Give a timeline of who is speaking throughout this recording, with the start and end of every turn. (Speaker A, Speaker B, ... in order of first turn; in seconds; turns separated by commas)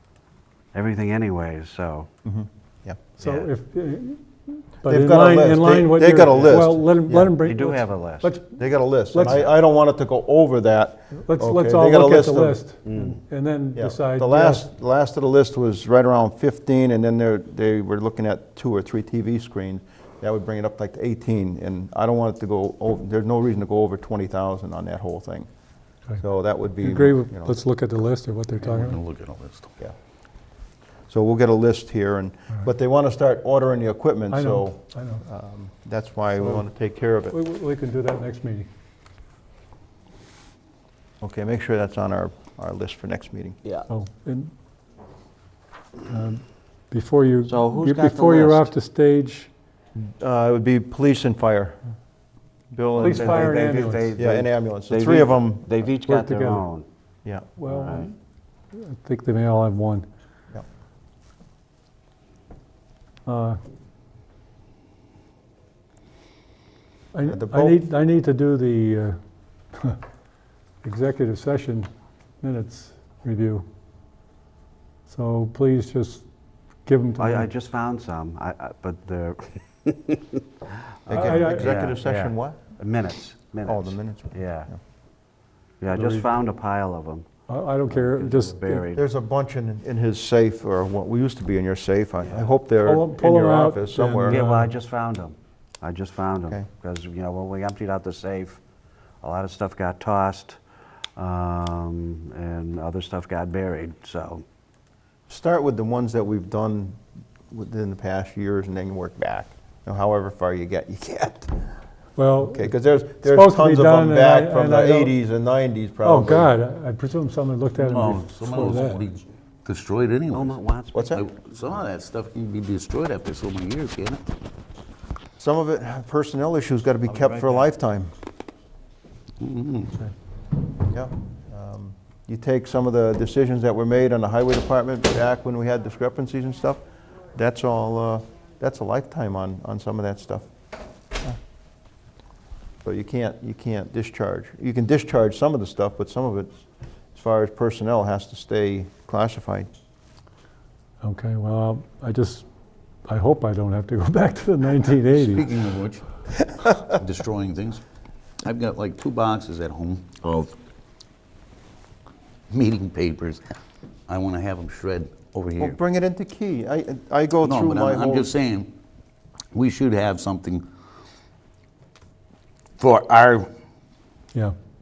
Speaker A: 0.7-2.1, Speaker B: 2.2-3.0, Speaker C: 3.2-9.5, Speaker A: 3.2-3.5, Speaker B: 4.8-7.3, Speaker A: 7.4-8.3, Speaker B: 8.6-12.6, Speaker C: 11.2-14.7, Speaker A: 12.8-13.2, Speaker B: 13.8-25.5, Speaker B: 26.2-27.6, Speaker C: 26.7-29.0, Speaker D: 28.6-29.7, Speaker B: 31.1-37.4, Speaker C: 34.3-35.2, Speaker C: 36.4-36.7, Speaker C: 37.3-38.7, Speaker B: 41.2-43.6, Speaker C: 43.9-44.5, Speaker C: 46.0-49.5, Speaker A: 47.5-48.7, Speaker B: 50.0-51.8, Speaker B: 52.7-53.6, Speaker C: 53.0-54.1, Speaker A: 53.0-56.9, Speaker B: 54.2-55.7, Speaker C: 56.0-56.7, Speaker C: 57.6-58.1, Speaker A: 57.6-58.1, Speaker C: 58.7-60.1, Speaker C: 63.3-63.6, Speaker C: 67.1-69.2, Speaker B: 67.3-67.8, Speaker C: 69.7-70.0, Speaker C: 70.8-71.9, Speaker C: 72.4-73.7, Speaker C: 75.1-76.2, Speaker C: 76.8-77.5, Speaker A: 77.2-80.4, Speaker B: 81.1-82.6, Speaker C: 81.1-81.8, Speaker A: 81.2-84.7, Speaker D: 81.6-82.0, Speaker B: 83.7-84.4, Speaker A: 85.8-87.3, Speaker C: 85.9-86.3, Speaker C: 87.5-88.9, Speaker A: 87.8-89.0, Speaker B: 89.0-94.4, Speaker C: 92.8-94.7, Speaker A: 94.2-98.6, Speaker A: 99.2-100.6, Speaker A: 101.2-104.4, Speaker B: 105.3-107.0, Speaker B: 107.5-111.6, Speaker C: 112.2-115.1, Speaker B: 112.4-116.5, Speaker C: 116.0-119.1, Speaker D: 117.8-120.6, Speaker A: 120.3-121.2, Speaker B: 120.9-121.3, Speaker D: 121.1-124.3, Speaker B: 125.4-128.1, Speaker A: 127.1-127.7, Speaker D: 129.4-130.0, Speaker B: 130.9-140.5, Speaker B: 142.8-146.5, Speaker B: 147.2-149.7, Speaker C: 151.0-152.4, Speaker C: 153.1-155.5, Speaker D: 155.1-156.1, Speaker D: 156.8-157.8, Speaker D: 158.4-160.5, Speaker D: 162.5-163.4, Speaker D: 164.1-165.8, Speaker B: 165.6-168.3, Speaker D: 167.4-168.7, Speaker D: 169.5-170.7, Speaker D: 172.8-173.5